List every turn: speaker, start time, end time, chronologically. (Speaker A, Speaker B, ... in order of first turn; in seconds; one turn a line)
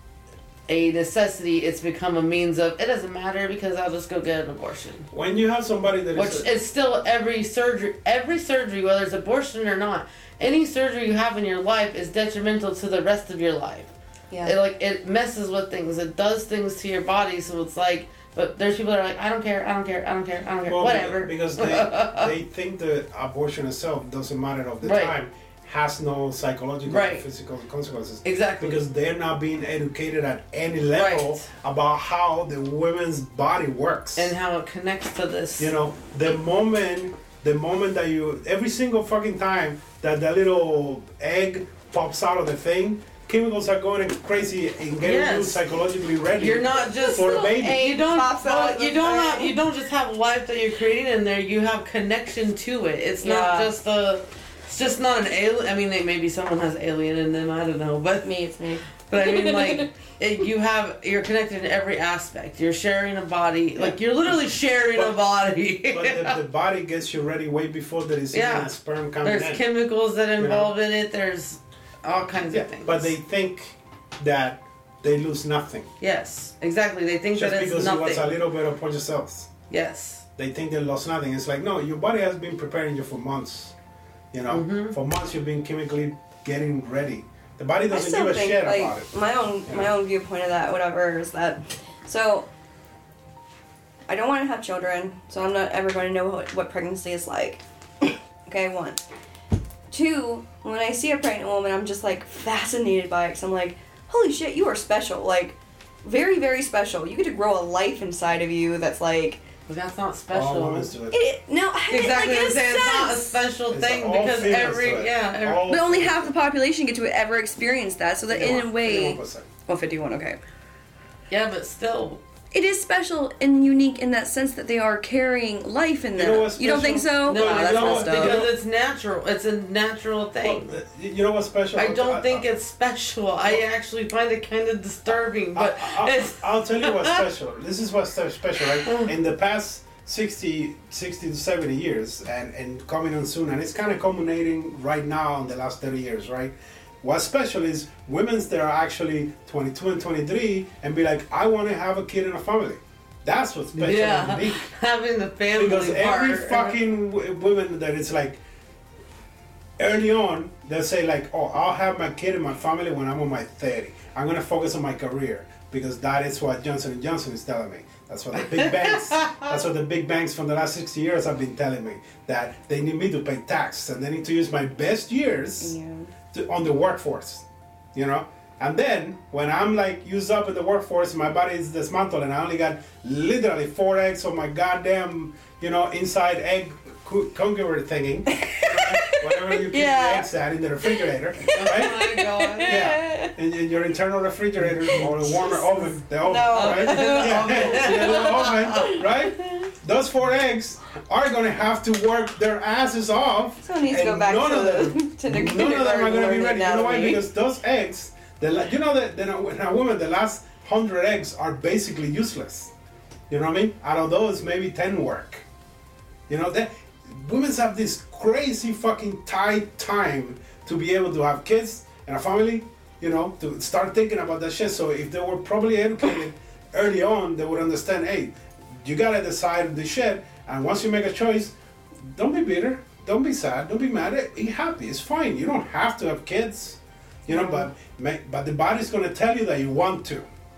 Speaker A: 0.7-5.1
Speaker B: 5.1-6.5
Speaker A: 6.2-13.9
Speaker A: 14.4-22.3
Speaker B: 20.7-34.3
Speaker A: 24.8-25.1
Speaker A: 26.9-27.2
Speaker A: 28.2-28.8
Speaker A: 30.9-31.4
Speaker A: 34.2-35.7
Speaker B: 35.6-47.9
Speaker A: 45.0-45.6
Speaker A: 46.4-58.3
Speaker C: 47.0-49.5
Speaker C: 53.2-53.7
Speaker C: 58.2-59.9
Speaker A: 59.0-66.4
Speaker B: 65.9-69.6
Speaker A: 68.3-68.7
Speaker A: 69.2-73.1
Speaker B: 70.4-70.7
Speaker B: 72.5-75.9
Speaker A: 76.0-78.4
Speaker B: 77.3-79.5
Speaker A: 79.7-80.2
Speaker B: 80.4-83.8
Speaker B: 84.3-89.1
Speaker A: 84.5-85.0
Speaker C: 87.9-92.5
Speaker C: 94.1-99.0
Speaker C: 99.9-109.4
Speaker A: 109.7-110.9
Speaker B: 110.3-111.2
Speaker C: 111.1-113.3
Speaker A: 111.9-115.7
Speaker B: 113.7-116.3
Speaker C: 115.7-120.4
Speaker B: 118.3-119.5
Speaker A: 121.3-122.2
Speaker C: 122.5-128.5
Speaker B: 126.2-128.5
Speaker A: 127.3-130.8
Speaker B: 130.4-132.4
Speaker A: 131.8-137.2
Speaker B: 135.6-154.7
Speaker A: 138.8-139.1
Speaker A: 153.7-156.8
Speaker B: 155.5-158.4
Speaker B: 159.8-175.7
Speaker A: 168.5-169.5
Speaker C: 175.6-176.1
Speaker B: 176.3-192.0
Speaker C: 188.3-190.3
Speaker C: 190.8-193.3
Speaker A: 191.5-192.8
Speaker B: 192.7-212.7
Speaker C: 194.8-199.7
Speaker A: 196.5-199.0
Speaker C: 203.6-207.2
Speaker B: 213.3-215.4
Speaker B: 216.3-231.5
Speaker B: 232.1-240.3
Speaker C: 237.3-237.7